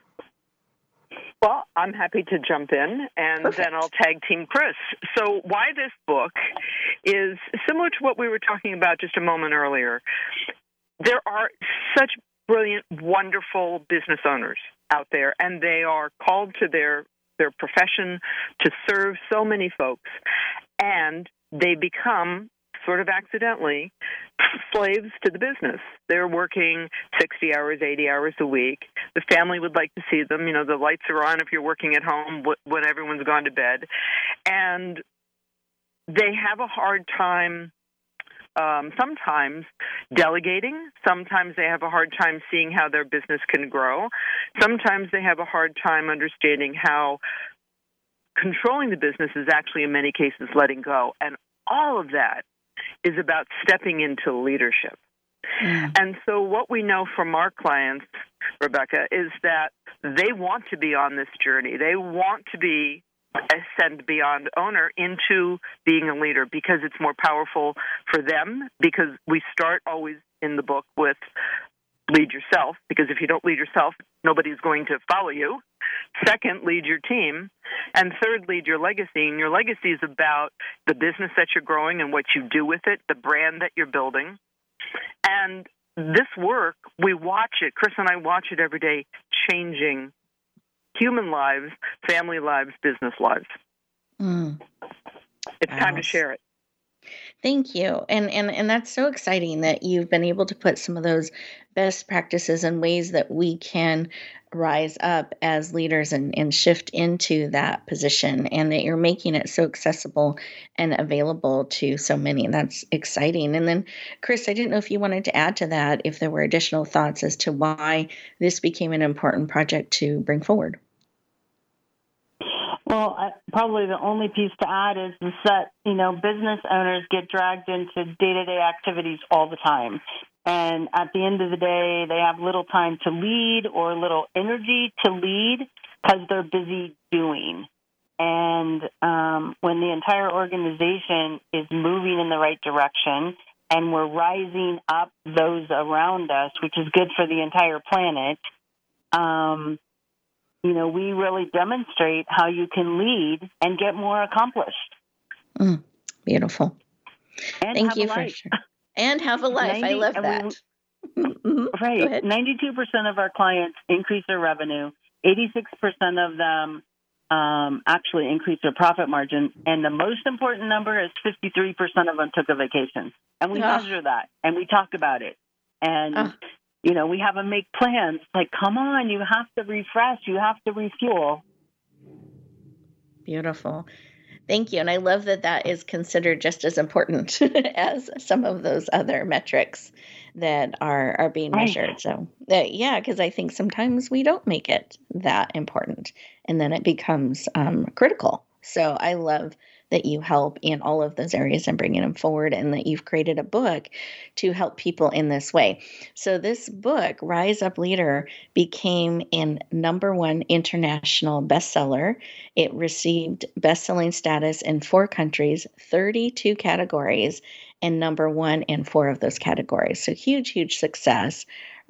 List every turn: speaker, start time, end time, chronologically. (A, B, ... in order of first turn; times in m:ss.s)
0:01.4-0:06.4 A
0:03.4-0:03.9 B
0:07.0-0:10.0 A
0:11.0-0:20.1 A
0:20.8-0:33.9 A
0:34.5-0:35.0 A
0:36.1-0:37.7 A
0:38.6-0:47.2 A
0:48.4-0:52.4 A
0:53.0-0:55.0 A
0:55.6-0:55.9 B
0:55.9-0:58.1 A
0:58.6-1:11.2 A
1:12.1-1:15.6 A
1:16.2-1:24.4 A
1:25.2-1:30.1 A
1:30.9-1:33.5 A
1:34.2-1:34.6 B
1:35.6-1:36.4 A
1:35.7-1:36.2 B
1:37.4-2:00.8 B
2:02.9-2:17.7 C
2:18.2-2:28.4 C
2:29.1-2:29.8 C
2:30.6-2:34.9 C
2:35.6-2:36.7 B
2:37.6-2:38.4 C
2:37.7-2:40.6 B
2:39.6-2:40.6 C
2:41.2-2:42.3 B
2:41.7-3:01.4 C
2:53.5-2:53.9 B
3:03.2-3:03.9 B
3:04.5-3:41.5 B
3:11.5-3:11.8 C